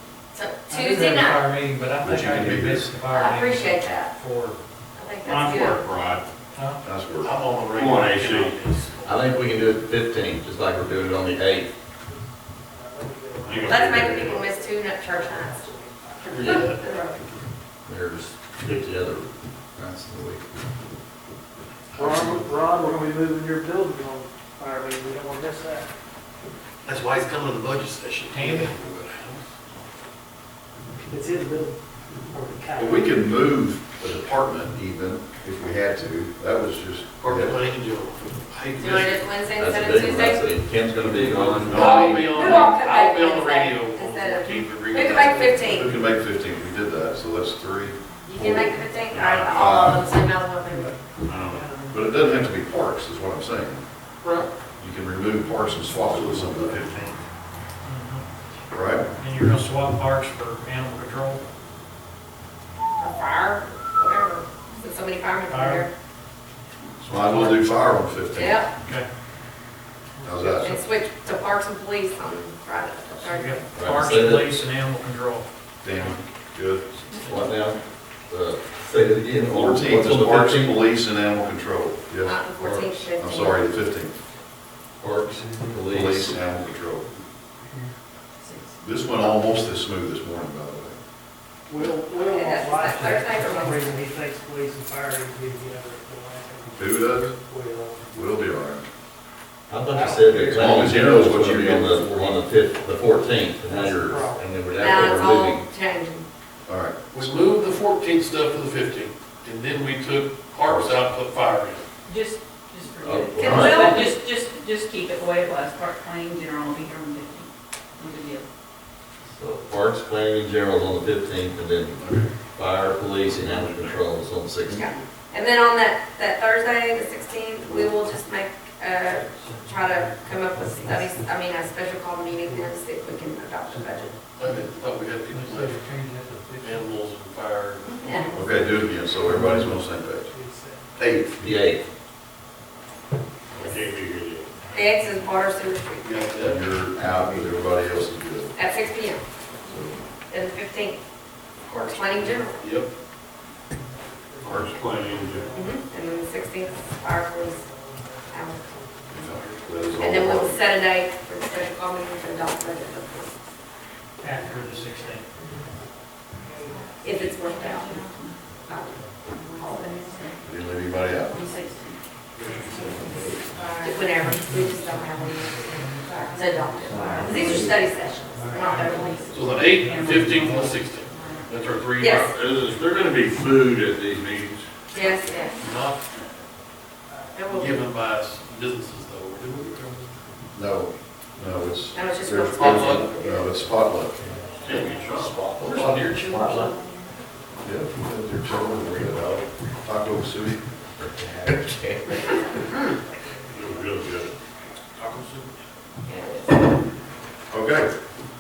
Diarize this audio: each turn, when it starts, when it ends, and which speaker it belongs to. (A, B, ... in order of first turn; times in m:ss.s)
0:00.3-0:01.5 A
0:00.7-0:04.6 B
0:02.0-0:02.8 C
0:02.1-0:02.7 D
0:03.1-0:04.1 A
0:05.0-0:05.8 A
0:05.2-0:06.3 E
0:06.8-0:07.3 C
0:07.2-0:08.9 F
0:07.8-0:08.6 E
0:09.0-0:11.7 D
0:12.7-0:17.2 G
0:13.4-0:14.4 E
0:13.6-0:17.2 A
0:16.3-0:16.8 F
0:16.4-0:16.6 D
0:17.9-0:20.4 D
0:22.0-0:25.9 G
0:26.8-0:29.4 F
0:28.3-0:28.7 B
0:31.1-0:31.8 G
0:32.3-0:33.4 G
0:33.1-0:37.6 C
0:37.2-0:39.2 F
0:38.8-0:40.5 A
0:39.6-0:42.0 D
0:41.0-0:45.8 F
0:41.5-0:41.8 E
0:41.7-0:46.0 A
0:41.7-0:42.4 C
0:45.7-0:48.7 C
0:46.3-0:46.8 D
0:48.3-0:51.0 A
0:49.1-0:49.7 E
0:49.5-0:50.0 C
0:51.3-0:51.7 E
0:51.5-0:52.0 G
0:51.9-0:53.8 C
0:54.2-0:54.5 F
0:54.8-0:56.8 C
0:56.0-0:57.2 E
0:56.2-0:56.7 D
0:57.8-0:58.2 B
0:58.7-0:59.0 C
0:59.2-1:01.4 B
1:03.0-1:05.9 A
1:05.5-1:05.8 B
1:07.1-1:07.6 B
1:07.1-1:08.6 C
1:08.3-1:08.7 A
1:10.2-1:10.8 C
1:10.6-1:13.6 A
1:13.2-1:16.2 B
1:13.7-1:14.5 D
1:15.8-1:16.8 C
1:17.2-1:22.0 D
1:19.5-1:22.4 C
1:22.2-1:23.7 A
1:22.6-1:23.1 D
1:23.2-1:24.1 C
1:25.0-1:26.6 D
1:25.4-1:25.7 B
1:26.0-1:27.0 C
1:28.4-1:28.7 H
1:28.8-1:31.0 C
1:31.7-1:38.1 G
1:32.2-1:34.1 A
1:36.8-1:37.3 C
1:38.1-1:38.8 C
1:39.7-1:45.6 D
1:39.9-1:41.0 G
1:40.6-1:42.3 C
1:43.6-1:44.5 G
1:44.8-1:46.3 A
1:46.7-1:47.0 C
1:47.1-1:51.9 F
1:50.7-1:51.0 C
1:52.1-1:58.4 H
1:53.0-1:53.9 D
1:53.4-1:54.1 A
1:59.3-2:04.8 D
2:03.5-2:04.0 E
2:04.7-2:14.1 A
2:12.4-2:12.7 G
2:13.7-2:14.2 G
2:14.4-2:15.8 F
2:15.3-2:16.9 B
2:16.6-2:18.3 F
2:17.9-2:18.3 A
2:18.3-2:20.3 C
2:19.3-2:19.7 B
2:19.6-2:21.0 G
2:21.0-2:21.4 C
2:21.4-2:21.8 D
2:23.6-2:24.5 E
2:24.7-2:26.1 A
2:26.0-2:26.6 F
2:26.4-2:28.6 C
2:28.6-2:29.2 A
2:29.7-2:30.0 C
2:30.3-2:31.0 A
2:31.7-2:32.6 A
2:32.2-2:32.6 G
2:32.6-2:32.9 F
2:33.7-2:40.1 G
2:34.4-2:35.5 E
2:35.5-2:37.6 A
2:38.3-2:38.7 A
2:39.1-2:40.6 C
2:40.0-2:43.4 A
2:44.2-2:45.3 B
2:44.4-2:45.5 A
2:44.9-2:47.2 G
2:47.0-2:48.0 A
2:47.5-2:48.3 H
2:48.7-2:50.2 A
2:49.8-2:50.3 H
2:50.4-2:51.3 C
2:51.3-2:52.0 H
2:52.8-2:59.6 A
2:54.2-2:56.0 B
2:58.4-2:59.0 B
2:59.3-3:02.4 F
2:59.8-3:00.8 B
2:59.9-3:00.3 H
3:02.0-3:02.3 A
3:02.3-3:04.7 E
3:04.9-3:05.6 A
3:05.5-3:06.0 F
3:07.3-3:07.8 A
3:07.5-3:10.1 F
3:10.5-3:14.2 C
3:11.9-3:13.6 A
3:12.6-3:13.1 F
3:14.3-3:15.0 G
3:14.6-3:15.5 E
3:14.7-3:16.8 F
3:17.6-3:20.6 C
3:21.0-3:22.0 D
3:23.5-3:24.4 E
3:23.6-3:24.0 G
3:25.0-3:25.4 E
3:26.1-3:26.6 A
3:27.5-3:27.9 C